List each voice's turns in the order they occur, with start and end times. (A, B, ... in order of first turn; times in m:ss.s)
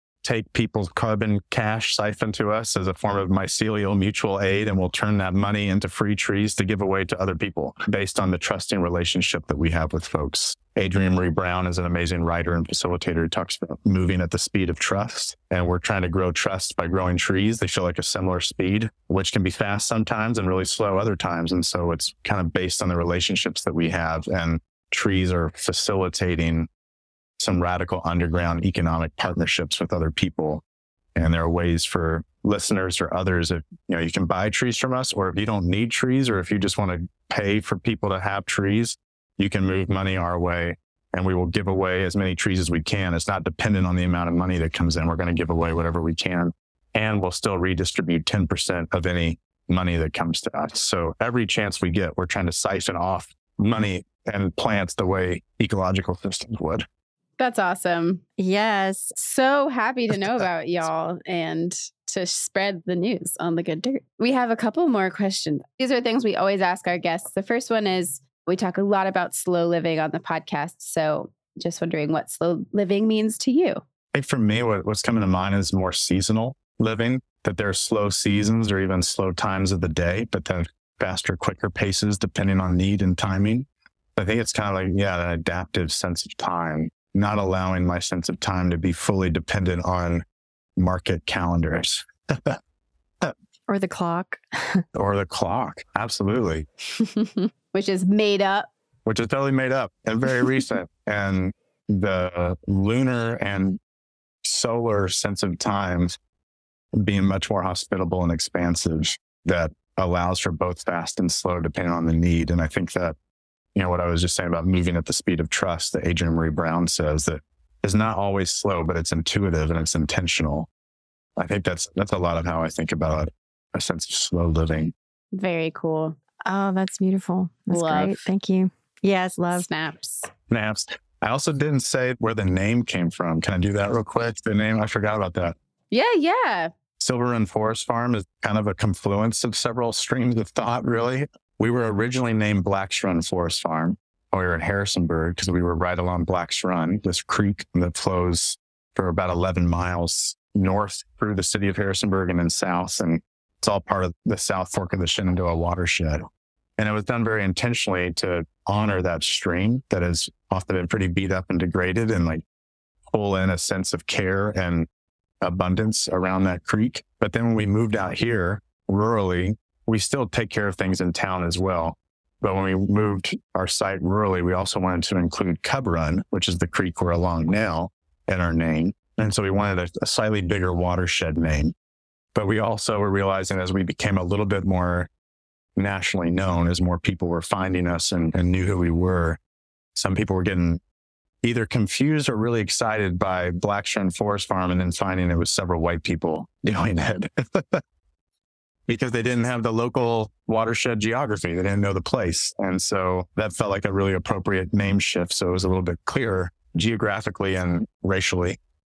0:00.2-0:26.7 A
0:27.4-0:30.6 A
0:31.2-0:56.9 A
0:57.4-0:58.2 B
0:58.4-0:59.2 C
0:59.2-1:13.8 B
1:14.1-1:30.2 A
1:30.8-1:32.6 A
1:33.7-1:34.8 C
1:34.9-1:36.7 A
1:37.0-1:38.7 B
1:39.1-1:43.8 A
1:44.4-1:46.2 A
1:46.9-1:53.2 A
1:53.8-2:00.7 A
2:01.4-2:04.9 A
2:05.3-2:06.2 B
2:06.4-2:09.7 C
2:07.7-2:08.2 B
2:09.6-2:10.3 B
2:10.5-2:15.6 A
2:15.9-2:16.7 B
2:17.0-2:36.3 A
2:36.8-2:42.4 A
2:43.1-2:44.9 A
2:45.4-3:01.7 A
3:02.4-3:05.1 A
3:05.8-3:09.4 A
3:10.0-3:10.8 A
3:11.4-3:17.8 A
3:18.9-3:28.6 A